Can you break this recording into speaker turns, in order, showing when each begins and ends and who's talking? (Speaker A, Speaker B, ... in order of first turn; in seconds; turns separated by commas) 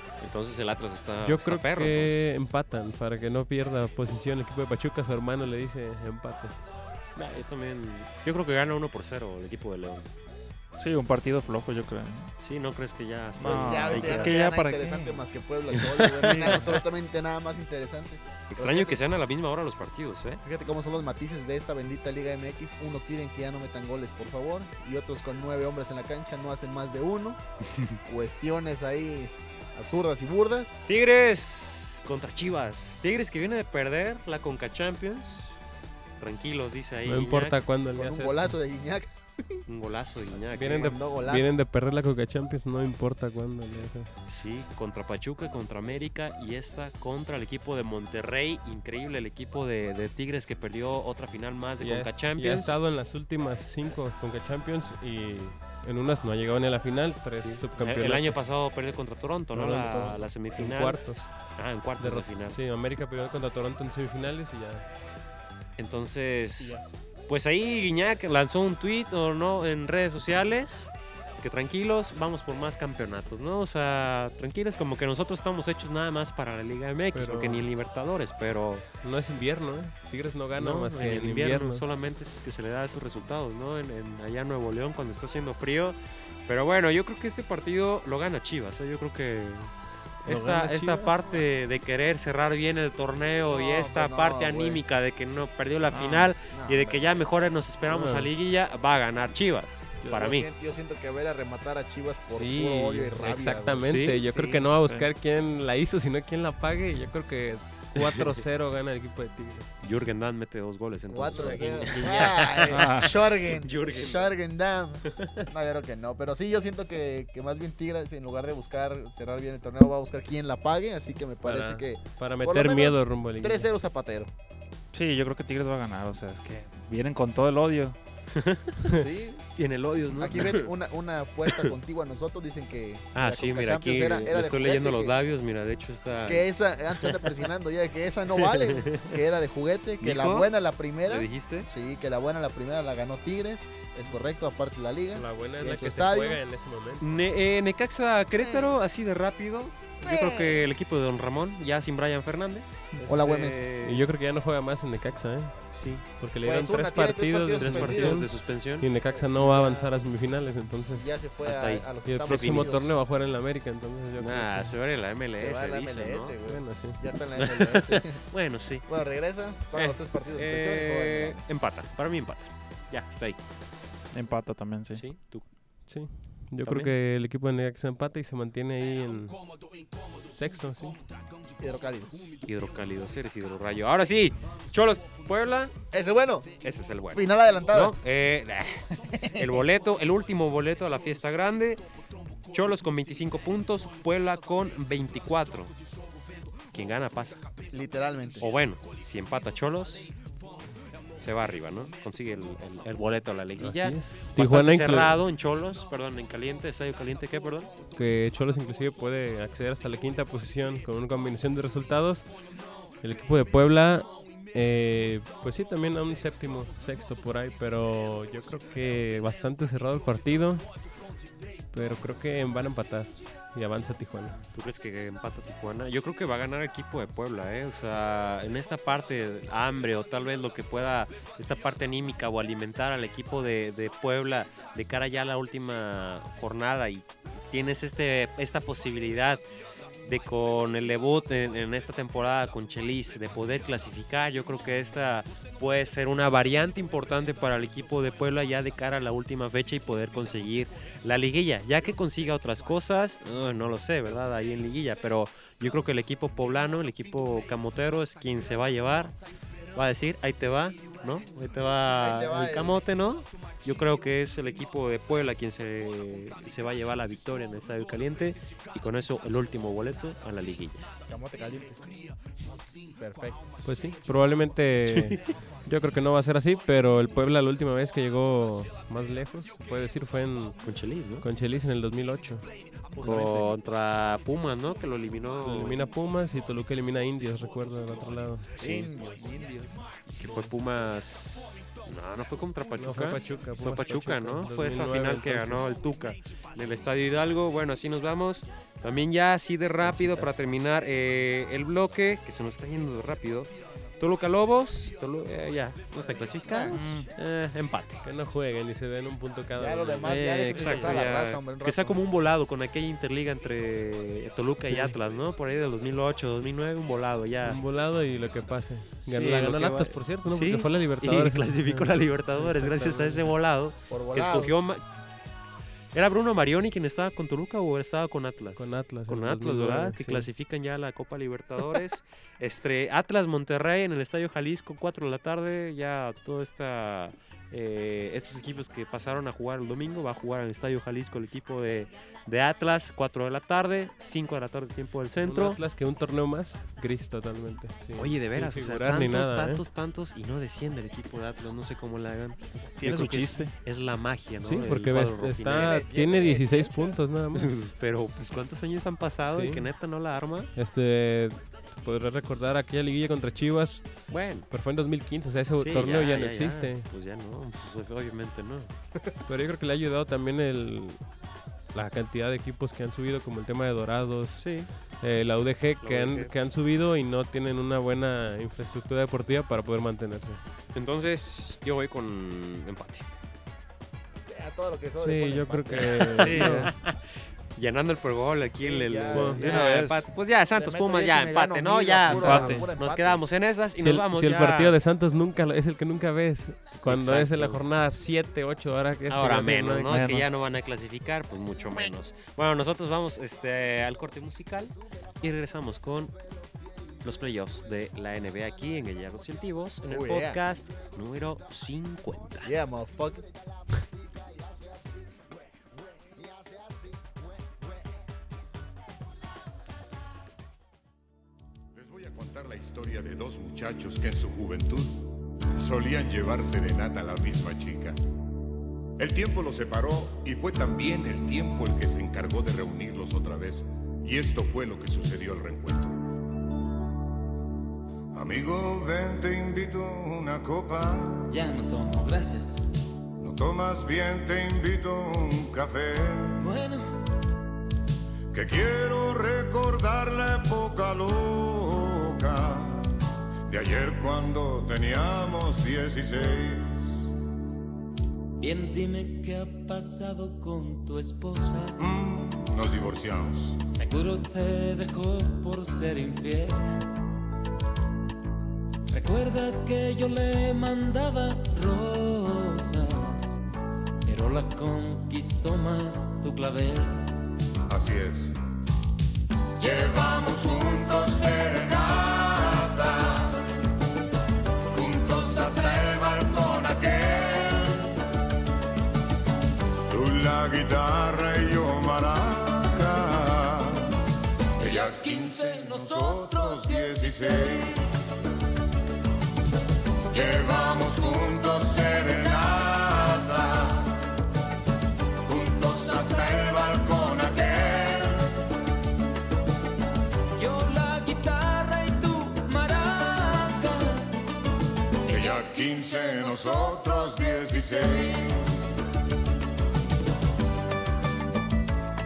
Speaker A: 0.2-2.3, Speaker B: 1.2-6.6, Speaker A: 7.2-10.1, Speaker C: 10.8-12.3, Speaker A: 12.4-14.4, Speaker C: 13.4-15.2, Speaker D: 13.4-19.0, Speaker A: 15.8-16.8, Speaker C: 16.2-16.8, Speaker A: 18.5-20.4, Speaker D: 20.4-27.4, Speaker D: 28.1-30.8, Speaker A: 30.9-35.6, Speaker A: 36.2-37.6, Speaker B: 37.0-38.5, Speaker D: 38.0-39.6, Speaker A: 39.7-41.0, Speaker B: 40.5-44.1, Speaker D: 40.5-41.5, Speaker A: 44.3-52.8, Speaker B: 51.8-58.4, Speaker A: 57.4-61.0, Speaker B: 59.5-61.3, Speaker A: 61.6-62.6, Speaker B: 62.0-64.8, Speaker A: 65.8-78.8, Speaker B: 77.1-77.7, Speaker B: 79.0-81.8, Speaker A: 80.6-89.7, Speaker A: 90.2-100.5, Speaker B: 90.2-91.3, Speaker D: 93.5-94.8, Speaker D: 96.3-97.1, Speaker B: 97.9-98.3, Speaker D: 100.1-104.7, Speaker B: 102.3-109.7, Speaker A: 103.9-104.2, Speaker C: 104.8-105.1, Speaker A: 108.0-108.3, Speaker A: 109.8-114.3, Speaker D: 111.1-124.3, Speaker B: 111.3-111.9, Speaker C: 112.7-113.1, Speaker A: 115.1-115.5, Speaker B: 121.4-123.7, Speaker C: 124.9-128.0, Speaker A: 128.3-129.0, Speaker D: 129.0-129.4, Speaker A: 129.6-130.7, Speaker D: 130.2-135.2, Speaker A: 133.1-137.4, Speaker D: 136.2-146.4, Speaker A: 138.4-139.2, Speaker A: 140.0-140.5, Speaker A: 141.1-141.7, Speaker B: 145.1-147.2, Speaker A: 147.0-154.0, Speaker D: 148.4-148.8, Speaker D: 150.0-150.7, Speaker D: 153.1-153.6, Speaker B: 153.8-161.1, Speaker A: 155.7-156.0, Speaker D: 156.4-158.3, Speaker A: 157.6-158.9, Speaker D: 159.1-160.0, Speaker D: 160.9-162.9, Speaker A: 161.4-162.7, Speaker B: 162.1-164.7, Speaker A: 164.2-166.4, Speaker D: 165.4-168.2, Speaker B: 166.5-167.0, Speaker A: 167.4-168.9, Speaker D: 168.9-171.4, Speaker A: 169.7-173.4, Speaker C: 174.1-175.0, Speaker A: 175.0-175.5, Speaker B: 175.9-179.4, Speaker A: 176.6-176.9, Speaker B: 180.2-181.0, Speaker D: 181.6-182.4, Speaker A: 182.4-185.7, Speaker D: 185.9-186.6, Speaker A: 186.6-191.8, Speaker D: 187.1-188.0, Speaker D: 188.9-189.7, Speaker A: 192.5-195.7, Speaker A: 196.7-197.4, Speaker D: 197.7-198.5, Speaker A: 198.4-200.1, Speaker A: 201.2-207.7, Speaker B: 203.6-205.2, Speaker B: 207.9-212.3, Speaker B: 213.0-220.7, Speaker B: 221.7-224.4, Speaker A: 224.5-239.4, Speaker A: 240.0-259.1, Speaker A: 259.7-270.9, Speaker D: 261.9-262.8, Speaker D: 271.1-271.8, Speaker D: 273.0-273.4, Speaker B: 273.6-280.6, Speaker A: 274.9-275.2, Speaker A: 280.6-281.2, Speaker B: 281.2-282.5, Speaker D: 282.9-283.5, Speaker A: 283.0-285.8, Speaker B: 285.4-289.2, Speaker D: 288.6-289.8, Speaker A: 290.2-308.0, Speaker B: 292.8-295.7, Speaker B: 299.8-300.4, Speaker D: 306.4-306.8, Speaker C: 306.7-307.1, Speaker B: 308.0-311.1, Speaker D: 309.6-312.0, Speaker A: 310.0-317.6, Speaker B: 314.7-315.0, Speaker B: 317.4-323.3, Speaker A: 319.1-324.8, Speaker D: 323.9-324.6, Speaker A: 325.9-345.6, Speaker B: 328.6-330.3, Speaker B: 345.2-349.6, Speaker A: 348.0-355.8, Speaker C: 352.8-353.5, Speaker B: 354.4-357.5, Speaker D: 355.5-357.0, Speaker A: 357.3-360.5, Speaker B: 359.3-359.7, Speaker B: 360.6-366.9, Speaker A: 364.1-364.5, Speaker A: 365.6-368.7, Speaker B: 369.3-371.1, Speaker B: 371.7-380.4, Speaker A: 374.4-374.7, Speaker A: 375.8-376.3, Speaker A: 380.8-383.1, Speaker D: 384.3-386.5, Speaker B: 385.0-386.7, Speaker A: 386.0-387.0, Speaker C: 386.2-386.7, Speaker A: 387.6-394.8, Speaker D: 388.5-389.6, Speaker B: 389.1-389.5, Speaker C: 389.4-390.1, Speaker D: 390.5-393.2, Speaker C: 392.1-392.7, Speaker B: 393.8-400.0, Speaker A: 396.9-397.6, Speaker A: 399.1-406.1, Speaker C: 399.9-400.3, Speaker A: 407.0-412.5, Speaker D: 409.9-410.4, Speaker D: 412.4-413.3, Speaker E: 421.7-428.0, Speaker E: 429.0-436.1, Speaker E: 438.1-441.4, Speaker F: 441.3-442.6, Speaker E: 443.2-446.6, Speaker F: 446.4-446.9, Speaker E: 448.3-453.0, Speaker E: 453.5-457.0, Speaker F: 458.4-461.8, Speaker E: 461.8-463.6, Speaker F: 463.7-466.8, Speaker F: 468.9-473.4, Speaker F: 474.1-477.2, Speaker E: 477.7-478.4, Speaker E: 479.6-483.4, Speaker E: 484.7-488.0, Speaker E: 489.9-497.8, Speaker F: 494.6-497.9, Speaker E: 500.1-504.0, Speaker E: 505.3-508.3, Speaker F: 510.3-514.3, Speaker E: 515.1-518.4, Speaker F: 515.1-516.5